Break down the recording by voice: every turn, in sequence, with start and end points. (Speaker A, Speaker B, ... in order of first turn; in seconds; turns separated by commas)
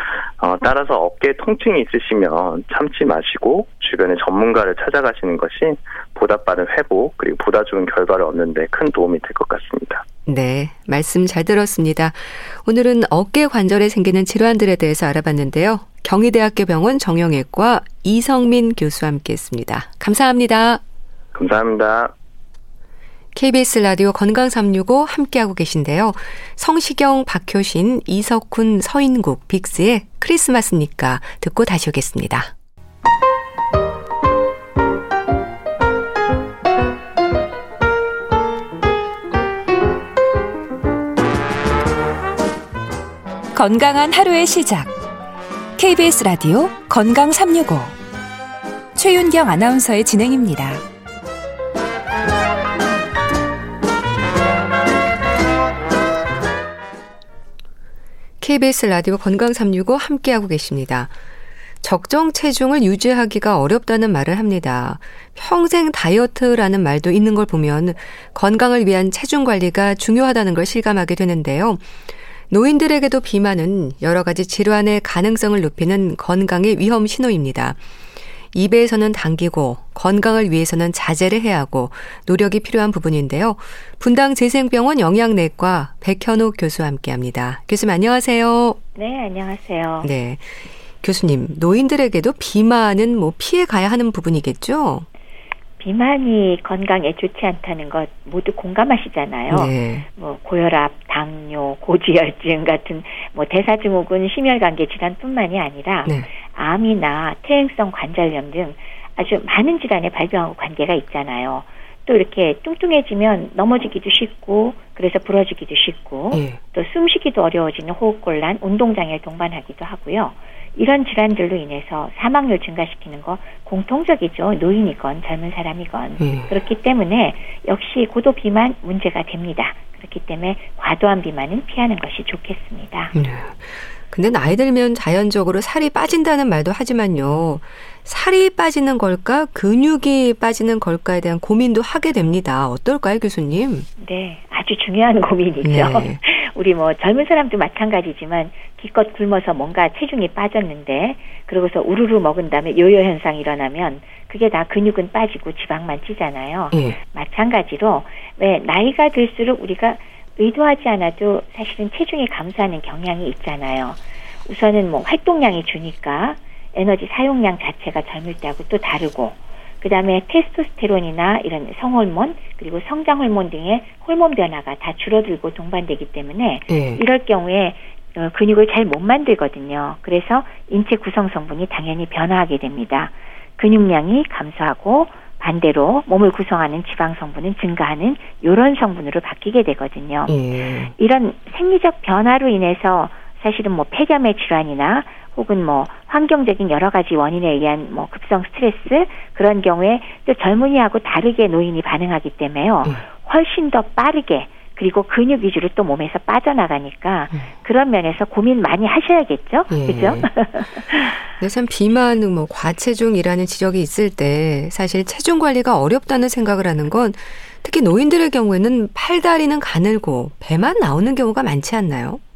Speaker A: 0.4-10.0, Speaker B: 10.2-20.8, Speaker A: 21.3-22.1, Speaker B: 23.3-32.5, Speaker B: 43.5-44.9, Speaker B: 45.8-47.9, Speaker B: 49.0-50.8, Speaker B: 58.4-61.1, Speaker B: 61.8-71.9, Speaker B: 72.5-77.8, Speaker B: 78.5-88.8, Speaker C: 89.0-90.1, Speaker B: 90.0-95.0, Speaker C: 95.8-133.1, Speaker B: 99.5-100.1, Speaker B: 116.3-116.6, Speaker B: 126.2-126.5, Speaker B: 133.1-143.9, Speaker C: 144.0-190.3, Speaker B: 145.6-146.2, Speaker B: 176.7-177.0, Speaker B: 190.3-190.9, Speaker C: 191.0-211.2, Speaker B: 209.7-210.3, Speaker B: 211.4-222.2